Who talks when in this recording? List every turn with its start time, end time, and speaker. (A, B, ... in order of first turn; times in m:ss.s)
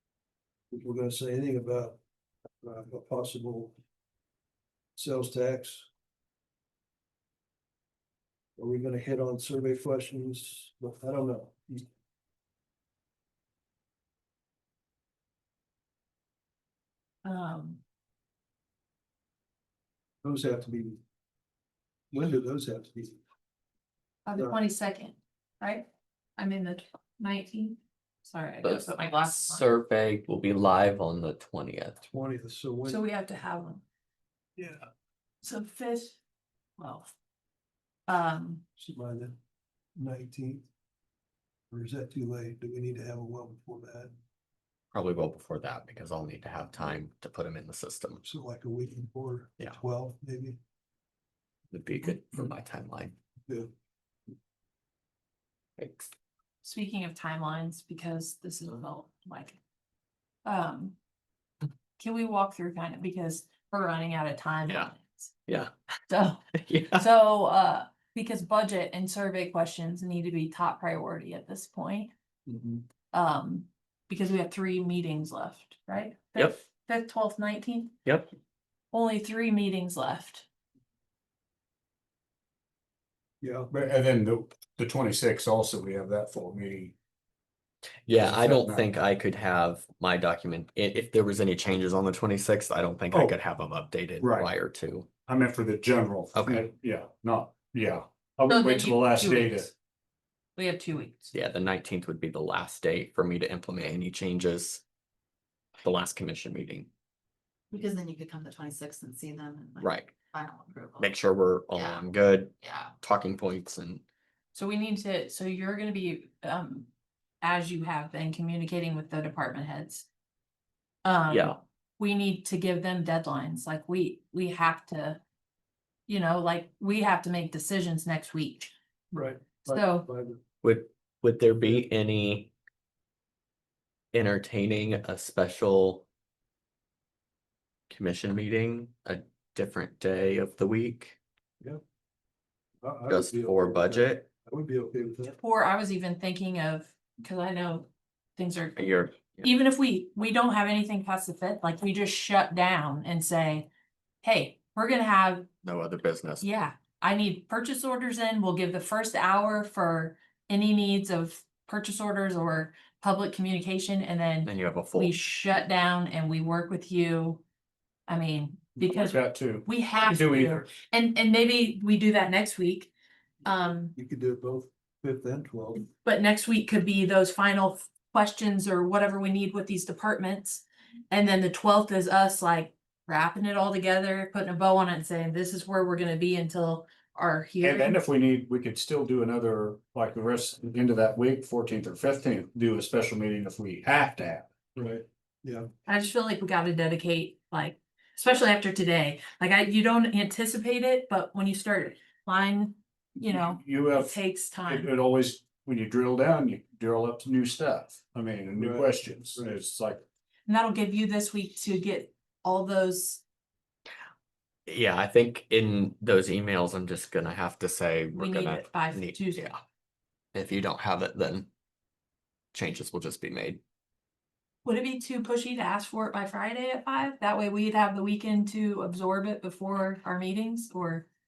0:00.7-0:02.0 A
0:02.6-0:03.8 A
0:05.0-0:05.9 A
0:08.6-0:11.9 A
0:17.2-0:17.8 B
0:20.2-0:21.0 A
0:22.1-0:23.2 A
0:24.3-0:29.7 B
0:28.6-0:32.1 C
0:32.1-0:33.0 A
0:32.8-0:33.8 B
0:34.6-0:34.9 A
0:35.4-0:36.2 B
0:36.8-0:37.1 B
0:38.1-0:38.6 B
0:38.8-0:39.4 A
0:40.0-0:40.7 A
0:41.7-0:44.1 A
0:44.9-0:48.2 C
0:48.2-0:50.6 A
0:51.7-0:53.2 C
0:55.8-0:56.1 C
0:56.6-0:59.6 B
1:00.4-1:01.0 B
1:02.0-1:05.3 B
1:04.7-1:04.9 C
1:05.5-1:05.7 C
1:06.1-1:12.1 B
1:06.6-1:07.1 C
1:12.5-1:12.8 A
1:13.1-1:18.0 B
1:18.0-1:18.3 C
1:18.9-1:20.5 B
1:23.4-1:23.7 A
1:23.7-1:26.9 D
1:28.1-1:35.1 C
1:28.2-1:28.9 D
1:33.1-1:33.4 D
1:34.2-1:34.5 D
1:35.3-1:39.7 D
1:36.4-1:36.7 C
1:38.5-1:39.7 B
1:40.6-1:41.3 B
1:41.3-1:44.8 C
1:45.8-1:46.9 C
1:47.7-1:51.1 E
1:49.8-1:50.2 C
1:51.0-1:54.0 C
1:52.6-1:52.9 E
1:54.5-1:56.9 B
1:57.4-2:00.1 B
2:01.0-2:05.2 B
2:01.3-2:01.6 C
2:06.1-2:08.7 B
2:09.1-2:10.4 A
2:09.6-2:10.1 B
2:10.6-2:12.5 C
2:14.1-2:16.1 C
2:17.9-2:21.2 C
2:22.8-2:25.4 A
2:23.1-2:24.3 C
2:25.4-2:33.7 B
2:28.8-2:29.5 C
2:34.2-2:35.5 B
2:35.6-2:36.5 C
2:36.4-2:47.4 B
2:44.4-2:45.2 C
2:48.1-2:52.9 B
2:48.8-2:50.7 D
2:53.4-2:53.9 B
2:54.0-2:55.9 A
2:56.0-3:08.0 B
3:07.6-3:14.5 D
3:14.8-3:15.7 A
3:15.9-3:24.9 B
3:23.3-3:30.0 D
3:28.6-3:29.6 A
3:30.5-3:33.2 B
3:34.7-3:39.6 C
3:38.1-3:39.4 B
3:40.3-3:41.5 C
3:42.5-3:43.6 C
3:44.6-3:51.1 B